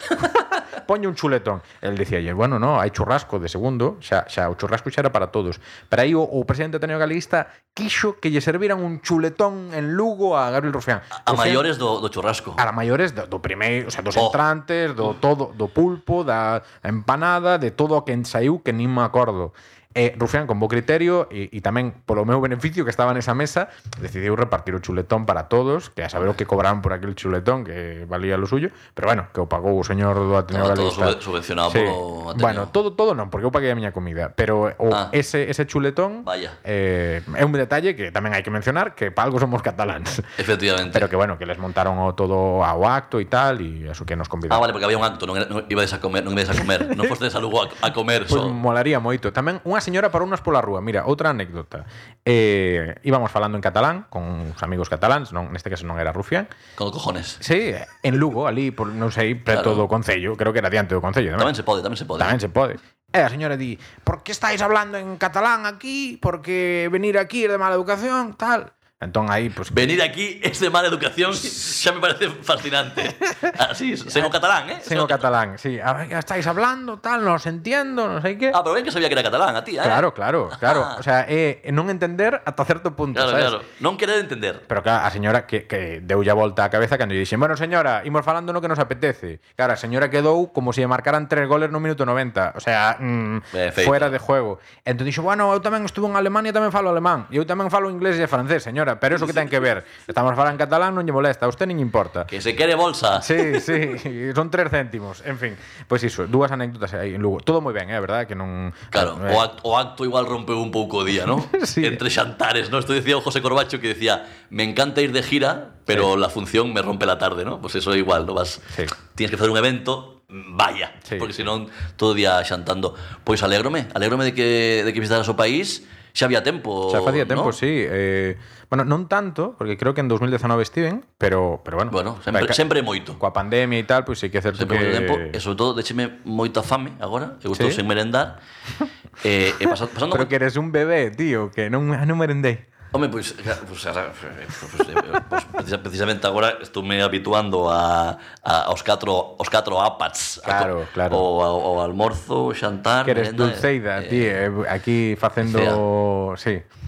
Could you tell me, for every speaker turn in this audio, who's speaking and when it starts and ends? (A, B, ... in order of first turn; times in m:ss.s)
0:00.2-0:11.7 A
0:11.2-0:12.6 B
0:12.6-0:40.3 A
0:14.2-0:14.4 B
0:30.5-0:32.8 B
0:34.9-0:35.2 B
0:36.2-0:36.6 B
0:40.4-0:41.1 B
0:40.9-0:44.6 A
0:44.5-0:48.6 B
0:48.3-0:56.5 A
0:56.8-0:57.4 B
0:57.4-1:01.5 A
0:59.5-0:59.9 B
1:01.4-1:02.4 B
1:02.2-1:09.9 A
1:09.7-1:15.3 B
1:14.8-1:18.6 A
1:18.5-1:21.0 B
1:19.8-1:23.6 A
1:23.1-1:24.6 B
1:24.7-1:42.3 A
1:33.5-1:34.2 B
1:42.3-1:43.8 B
1:43.2-1:49.4 A
1:48.9-2:07.6 B
1:51.3-1:52.0 A
2:01.0-2:01.3 A
2:06.9-2:12.6 A
2:11.9-2:13.2 B
2:13.2-2:15.4 A
2:14.6-2:18.4 B
2:17.5-2:17.8 A
2:19.2-2:20.3 B
2:20.1-2:22.7 A
2:22.9-2:34.4 B
2:30.4-2:31.3 A
2:33.0-2:36.6 A
2:35.4-2:35.8 B